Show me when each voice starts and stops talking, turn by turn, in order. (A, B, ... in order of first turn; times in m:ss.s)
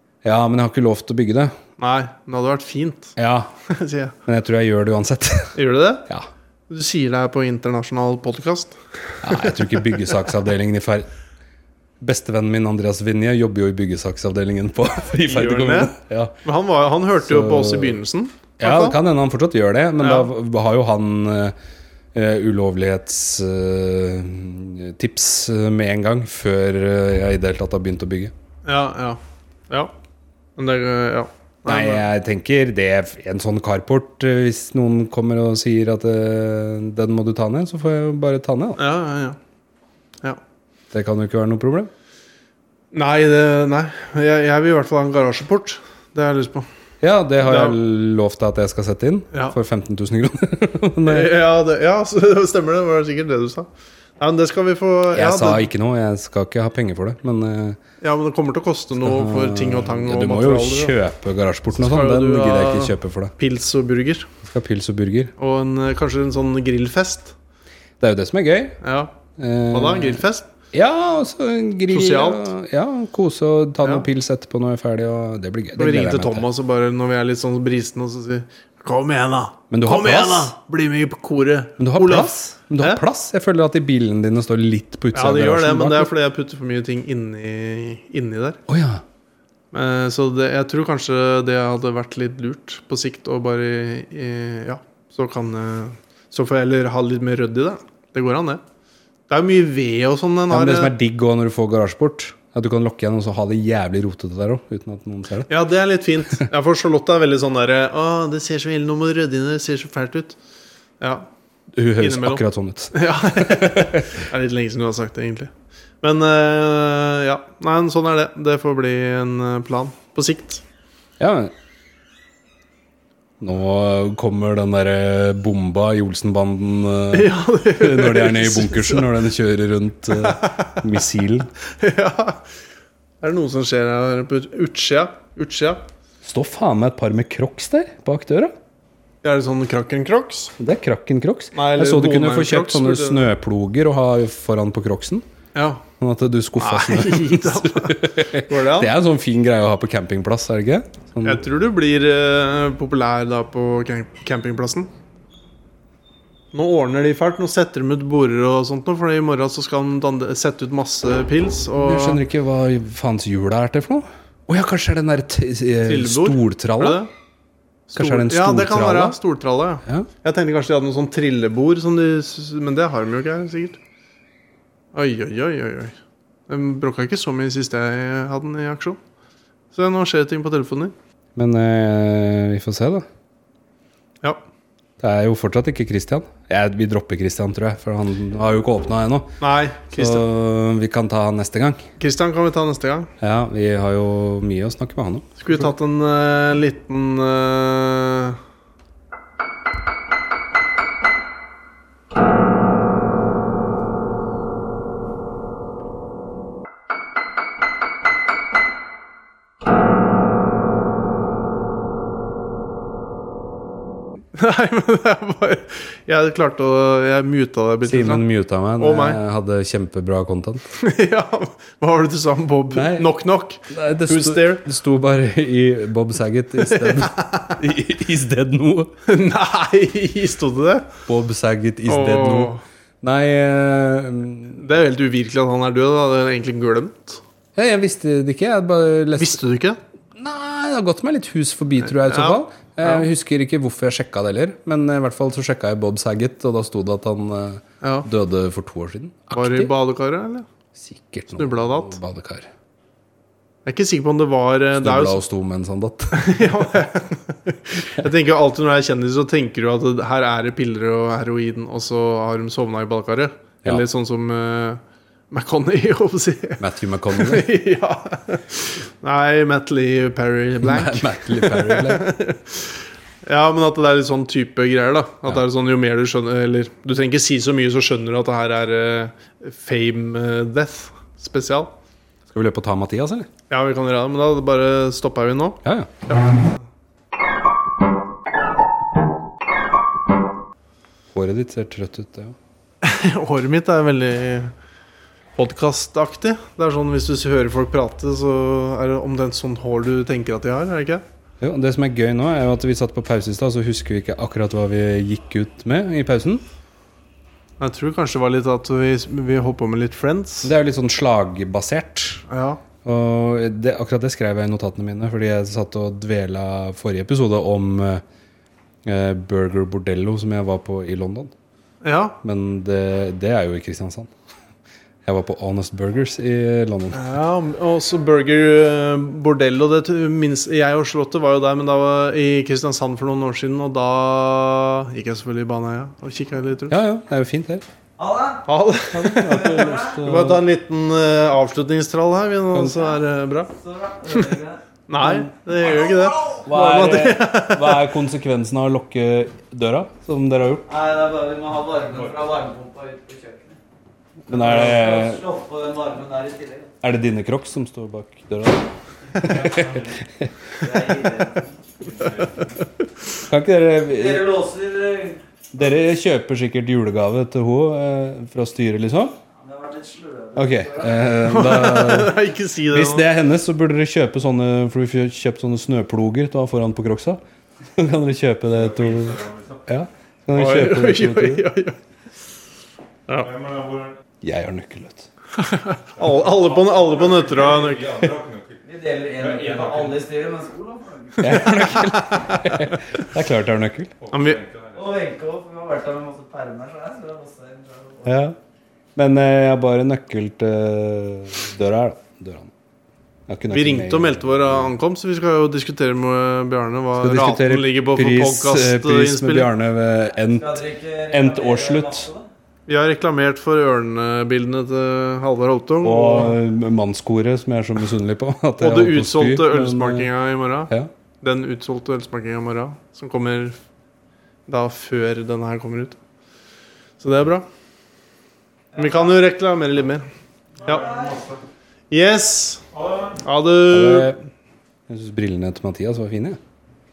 0:00.2-0:01.6 A
0:01.8-0:03.1 B
0:03.2-0:03.5 A
0:03.7-0:04.1 B
0:04.2-0:06.3 A
0:05.5-0:06.1 B
0:06.7-0:09.7 B
0:09.2-0:11.1 A
0:12.0-0:16.3 A
0:15.2-0:19.0 B
0:17.2-0:18.0 A
0:18.6-0:21.5 A
0:20.0-0:20.3 B
0:22.1-0:28.3 A
0:28.6-0:29.9 B
0:30.6-0:32.1 B
0:31.6-0:38.8 A
0:38.8-0:39.4 B
0:40.9-0:41.9 A
0:42.9-0:46.7 B
0:47.0-0:51.3 A
0:47.4-0:47.8 B
0:51.0-0:53.7 B
0:54.2-0:55.7 B
0:55.1-0:57.8 A
0:58.0-1:00.9 B
0:59.0-1:03.3 A
1:01.7-1:04.3 B
1:04.4-1:05.3 A
1:05.4-1:07.3 B
1:08.0-1:08.8 A
1:08.8-1:09.1 B
1:09.4-1:16.4 A
1:09.7-1:10.5 B
1:11.9-1:12.5 B
1:15.8-1:23.0 B
1:19.7-1:20.5 A
1:21.8-1:26.1 A
1:25.1-1:28.6 B
1:28.7-1:29.0 A
1:29.7-1:38.6 B
1:39.3-1:40.9 B
1:40.5-1:45.5 A
1:45.5-1:50.4 B
1:51.0-1:51.3 B
1:51.7-1:54.1 A
1:52.0-1:52.4 B
1:52.9-2:00.6 B
2:01.2-2:01.5 A
2:03.4-2:11.5 A
2:07.1-2:09.1 B
2:10.2-2:10.8 B
2:11.8-2:12.4 B
2:13.2-2:15.8 B
2:16.2-2:18.5 A
2:19.2-2:20.5 B
2:20.6-2:25.2 A
2:21.5-2:23.3 B
2:25.5-2:25.8 B
2:26.0-2:31.4 A
2:26.6-2:28.9 B
2:31.2-2:34.9 B
2:36.5-2:42.2 B
2:41.8-2:47.0 A
2:45.8-2:47.1 B
2:47.9-2:53.8 B
2:47.9-2:49.2 A
2:54.9-2:56.0 B
2:56.5-2:59.0 B
2:59.7-3:00.9 B
3:01.4-3:03.0 A
3:05.0-3:11.8 A
3:09.4-3:10.2 B
3:12.0-3:13.1 B
3:13.2-3:15.7 A
3:15.4-3:18.4 B
3:34.3-3:38.2 B
3:37.8-3:40.6 A
3:38.8-3:39.2 B
3:40.7-3:44.6 B
3:42.7-3:43.1 A
3:43.7-3:48.9 A
3:46.6-3:47.5 B
3:49.0-3:50.9 B
3:51.0-3:54.6 A
3:51.9-3:52.6 B
3:54.6-3:57.2 B
3:57.5-3:59.4 A
3:59.2-3:59.8 B
4:00.1-4:09.7 A
4:01.9-4:03.0 B
4:07.8-4:08.1 B
4:09.3-4:10.5 B
4:10.7-4:12.5 A
4:11.4-4:12.0 B
4:13.6-4:15.2 B
4:14.8-4:16.5 A
4:16.1-4:32.7 B
4:26.6-4:27.5 A
4:30.6-4:32.1 A
4:33.2-4:41.7 B
4:42.3-4:43.3 A
4:43.5-4:46.4 B
4:45.6-4:45.9 A
4:51.1-4:52.4 A
4:52.8-4:54.5 B
4:55.4-5:01.0 B
5:01.4-5:06.4 A
5:07.6-5:10.5 B
5:10.4-5:12.2 A
5:12.3-5:12.6 B
5:12.8-5:18.0 A
5:18.8-5:21.3 A
5:21.8-5:22.2 B
5:22.2-5:24.1 A
5:25.0-5:27.0 A
5:26.9-5:36.8 B
5:36.7-5:37.6 A
5:38.0-5:38.4 C
5:38.4-5:43.5 B
5:38.9-5:40.4 A
5:39.2-5:40.0 C
5:42.5-5:42.8 A
5:43.5-5:44.6 C
5:44.9-5:47.9 B
5:45.0-5:45.3 A
5:46.4-5:50.7 A
5:50.7-5:53.6 C
5:54.2-5:55.2 A
5:54.3-5:56.7 C
5:56.8-6:00.3 A
6:00.6-6:02.4 C
6:03.2-6:04.3 A
6:03.9-6:05.2 C
6:05.5-6:09.2 A
6:09.4-6:11.2 C
6:10.3-6:12.2 A
6:11.2-6:13.0 B
6:12.7-6:17.2 A
6:17.8-6:21.4 A
6:20.3-6:21.8 B
6:23.1-6:23.4 B
6:24.2-6:25.1 A
6:25.4-6:28.2 B
6:28.6-6:31.9 C
6:31.2-6:33.9 A
6:31.2-6:32.5 B
6:34.1-6:34.4 B
6:34.6-6:38.2 C
6:38.0-6:38.4 A
6:39.0-6:42.5 A
6:43.3-6:44.7 A
6:43.5-6:49.5 B
6:47.0-6:52.1 A
6:50.2-6:52.3 C
6:52.7-6:56.4 B
6:55.8-7:00.1 A
6:58.6-7:03.6 B
7:04.5-7:06.0 B
7:07.0-7:07.4 B
7:08.8-7:10.0 B
7:10.6-7:11.1 B
7:11.9-7:12.6 B
7:13.2-7:14.1 B
7:13.7-7:14.2 A
7:14.9-7:16.4 A